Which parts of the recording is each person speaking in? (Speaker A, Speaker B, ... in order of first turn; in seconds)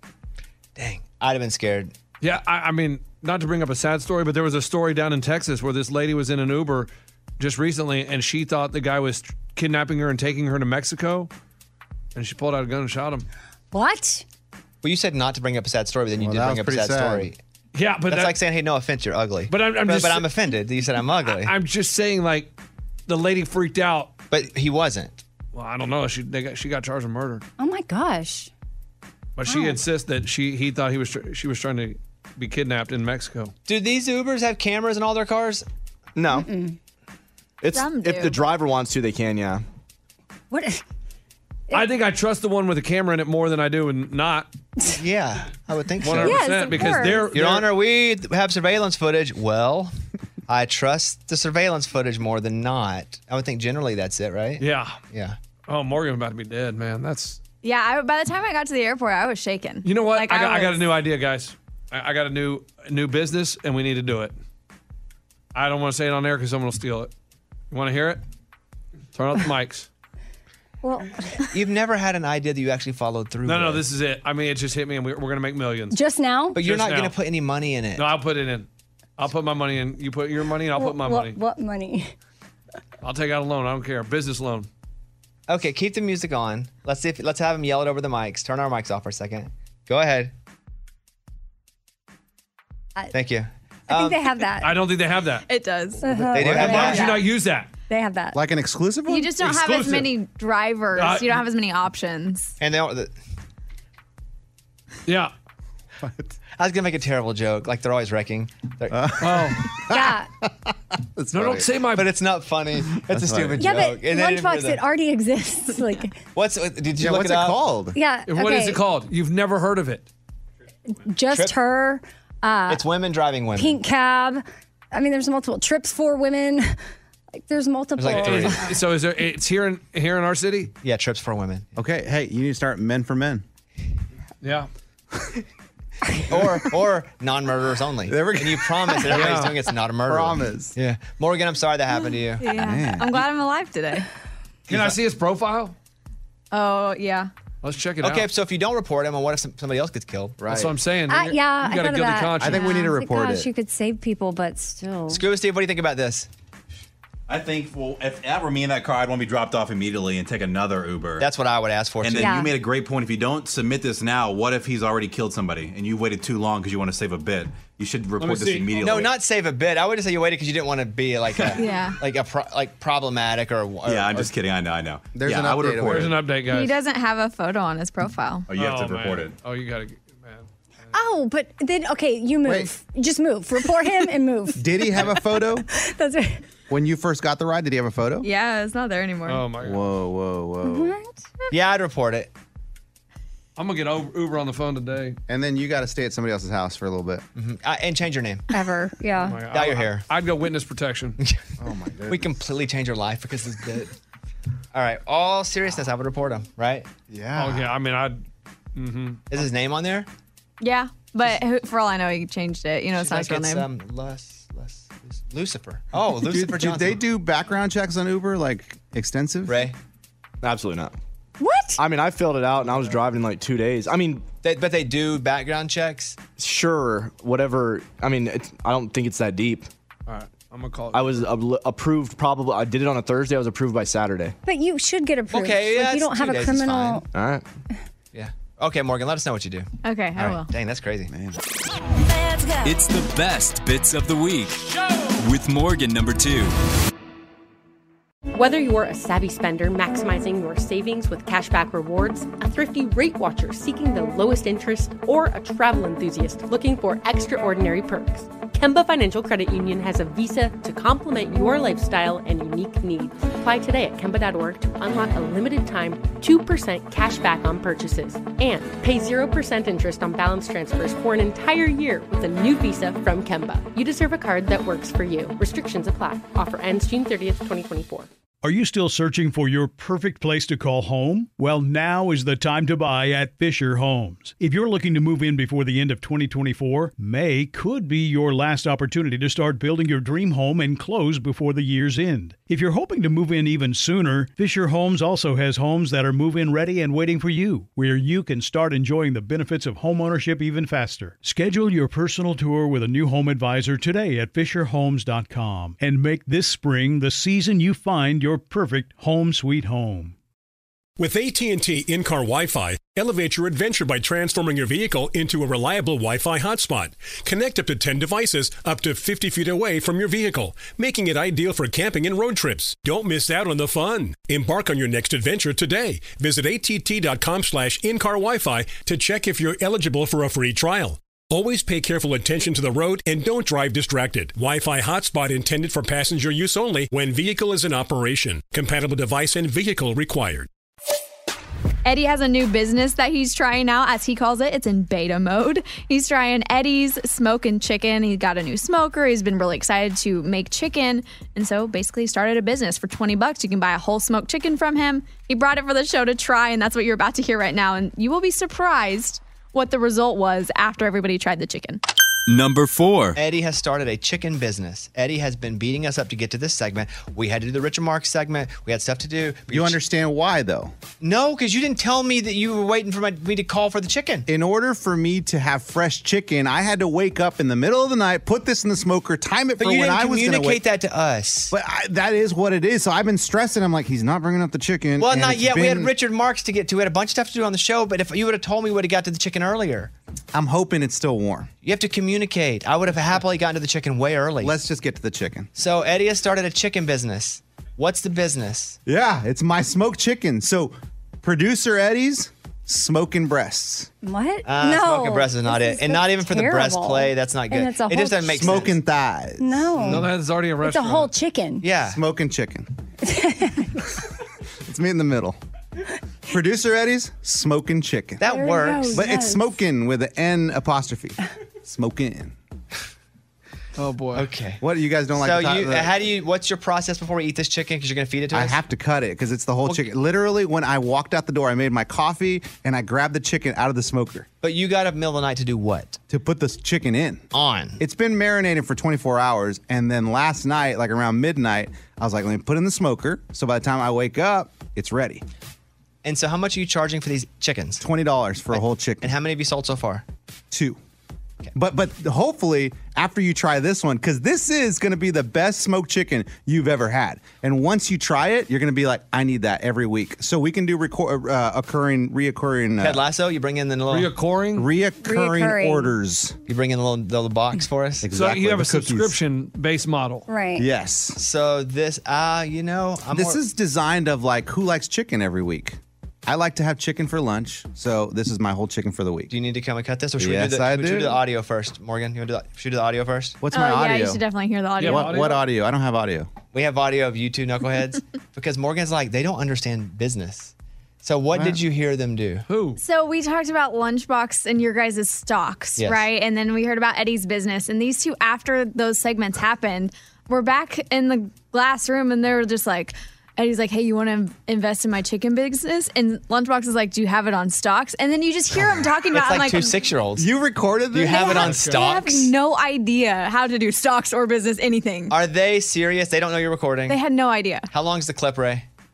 Speaker A: 0.8-1.9, 14.8-17.4, 18.1-21.5, 24.3-25.2, 33.7-35.7, 44.9-49.9, 50.5-55.4, 71.5-73.8, 76.5-78.1, 85.5-90.3, 93.1-94.2, 96.3-97.1, 102.6-103.1, 106.6-109.1, 111.9-114.8, 116.3-117.6, 121.3-121.6, 122.7-123.8, 128.0-128.7, 130.8-131.7, 136.3-142.5, 148.0-150.7, 155.1-156.3, 161.2-162.4, 168.8-174.3, 191.5-192.3, 197.4-198.5, 199.5-200.1, 201.2-201.4, 202.1-203.9, 204.7-206.9, 209.3-210.1, 212.9-217.0, 219.5-219.8, 224.4-226.2, 235.3-237.0, 238.1-241.1, 363.1-369.8, 371.0-374.3, 379.6-381.5, 385.0-389.9, 391.6-394.6, 395.6-398.8, 404.4-408.8, 411.6-412.0, 418.2-419.1, 424.1-424.6, 425.1-428.6, 434.4-436.0, 437.3-437.8, 446.0-447.8, 448.5-450.1, 462.8-464.1, 466.5-468.1, 471.2-473.4, 479.3-483.4, 486.5-492.5, 495.8-496.1, 509.1-510.3, 510.9-512.3, 515.1-517.0, 517.7-518.7
Speaker B: 2.2-11.3, 12.2-13.3, 17.7-18.4, 19.5-20.3, 21.3-22.5, 23.1-24.2, 25.5-27.4, 29.4-33.5, 41.7-44.5, 46.0-47.7, 54.6-55.0, 55.7-57.4, 59.8-64.3, 65.5-67.1, 67.7-68.2, 69.1-69.9, 73.5-76.0, 76.6-77.1, 78.0-78.7, 79.2-81.4, 83.0-84.7, 94.6-95.5, 96.4-97.7, 99.5-100.1, 101.0-101.4, 105.1-105.3, 109.2-109.6, 111.3-112.1, 118.3-120.1, 128.1-130.7, 134.4-134.7, 139.1-139.5, 144.7-145.7, 147.6-148.3, 150.4-152.8, 168.2-168.8, 175.8-176.8, 178.5-180.5, 189.3-189.9, 193.6-195.2, 199.2-201.2, 207.3-208.2, 208.8-209.2, 230.1-231.3, 409.8-411.1, 423.8-424.3, 463.9-464.7, 468.1-470.2, 484.8-485.4, 492.5-492.8, 511.4-511.8
Speaker C: 13.7-14.2, 27.6-28.5, 29.5-29.8, 36.3-36.8, 40.5-40.8, 46.1-47.4, 70.8-71.5, 75.9-76.6, 80.7-82.1, 93.9-94.8, 96.0-97.3, 97.9-98.4, 109.8-110.3, 113.6-116.2, 117.9-118.8, 120.9-122.8, 123.5-126.7, 127.4-128.7, 151.1-155.2, 162.1-162.6, 180.9-186.4, 190.6-191.2, 198.5-199.4, 221.4-221.8, 234.4-237.1, 404.0-408.7, 409.4-411.7, 413.0-413.9, 418.2-419.6, 465.0-466.0, 470.3-470.7
Speaker D: 16.2-17.3, 98.3-99.9, 106.0-106.3, 108.9-111.7, 113.1-113.7, 117.0-118.0, 131.8-133.4, 136.3-136.7, 138.1-139.4, 140.1-140.7, 142.5-143.2, 152.4-153.5, 175.1-176.1, 182.4-182.7, 184.6-185.6, 186.7-188.3, 189.6-191.0, 195.3-197.2, 201.6-202.3, 207.1-207.7, 216.1-219.7, 241.1-241.4, 369.5-370.7, 374.3-380.6, 381.5-385.9, 390.3-391.5, 394.4-395.5, 398.9-403.9, 408.3-410.0, 411.9-412.7, 414.6-415.4, 416.3-418.2, 418.9-422.4, 424.6-426.0, 428.3-434.3, 436.1-437.2, 437.8-445.2, 447.8-449.1, 450.5-450.8, 451.6-463.0, 464.6-466.4, 468.0-469.2, 470.6-471.2, 473.1-479.3, 480.2-481.2, 483.4-484.2, 484.8-486.3, 491.3-491.6, 510.2-511.5
Speaker E: 36.2-36.5, 37.6-39.6, 220.4-220.9, 221.8-224.3, 226.4-229.7, 230.9-234.4, 237.1-237.4
Speaker F: 37.7-38.4, 57.6-60.9, 95.5-97.2, 99.1-102.5, 142.4-144.1, 146.5-147.3, 171.6-172.0, 176.4-178.5, 188.2-189.4, 210.6-213.7, 239.8-240.5, 341.9-361.8, 483.5-485.2, 492.8-509.8, 511.0-515.2, 516.9-517.7
Speaker G: 157.3-161.3, 162.0-169.1, 173.9-176.2, 178.5-179.4
Speaker H: 242.6-246.6, 362.3-363.2
Speaker I: 248.3-278.1
Speaker J: 278.4-310.1
Speaker K: 311.0-340.5